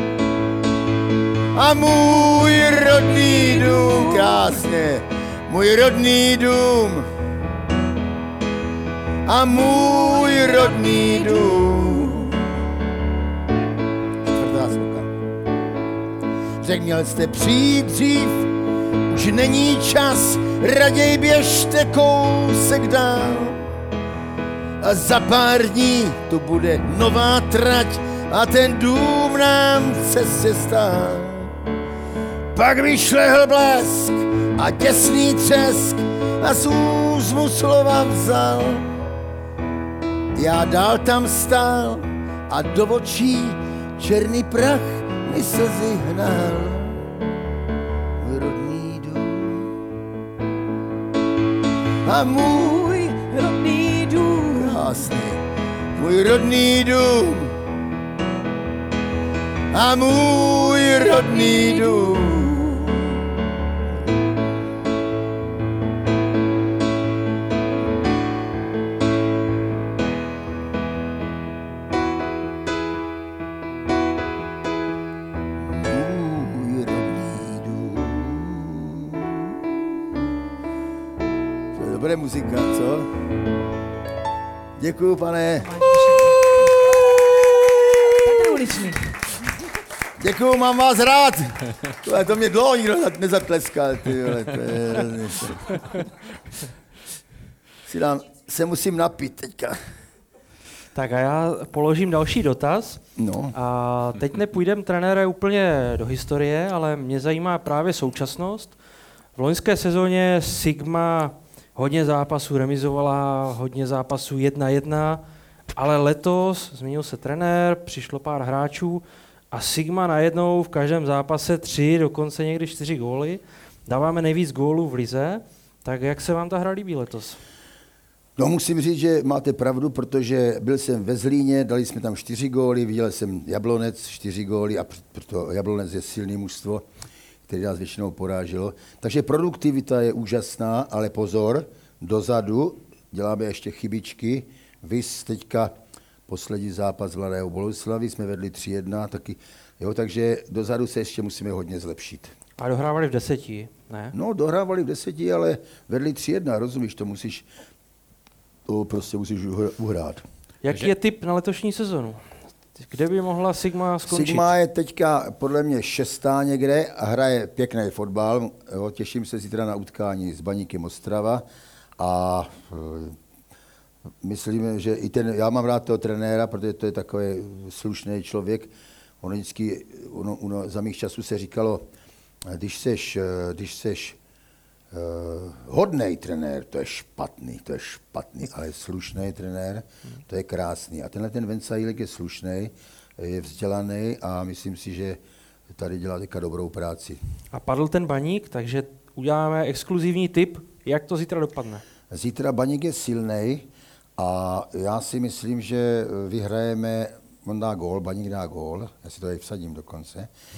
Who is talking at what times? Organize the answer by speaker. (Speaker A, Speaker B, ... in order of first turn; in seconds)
Speaker A: 1.5-7.1, 9.2-12.4, 14.3-15.1, 16.6-18.5, 19.1-23.7, 24.8-31.5, 32.5-38.9, 40.4-47.1, 48.2-49.8, 52.0-55.4, 56.0-57.6, 59.7-63.1, 75.6-80.3, 81.7-83.1, 84.8-85.8, 86.9-88.8, 90.2-95.8, 97.9-99.8, 103.2-103.5, 128.4-136.9, 137.5-145.7, 146.3-152.3, 154.1-157.5, 158.7-160.2, 164.1-171.4, 172.0-173.2, 174.2-181.9, 182.4-184.2, 184.9-197.2, 202.1-210.3
Speaker B: 101.0-103.0, 103.5-108.8, 109.4-115.2, 115.8-127.4, 152.6-154.1, 160.6-162.2, 162.8-164.5, 197.5-201.8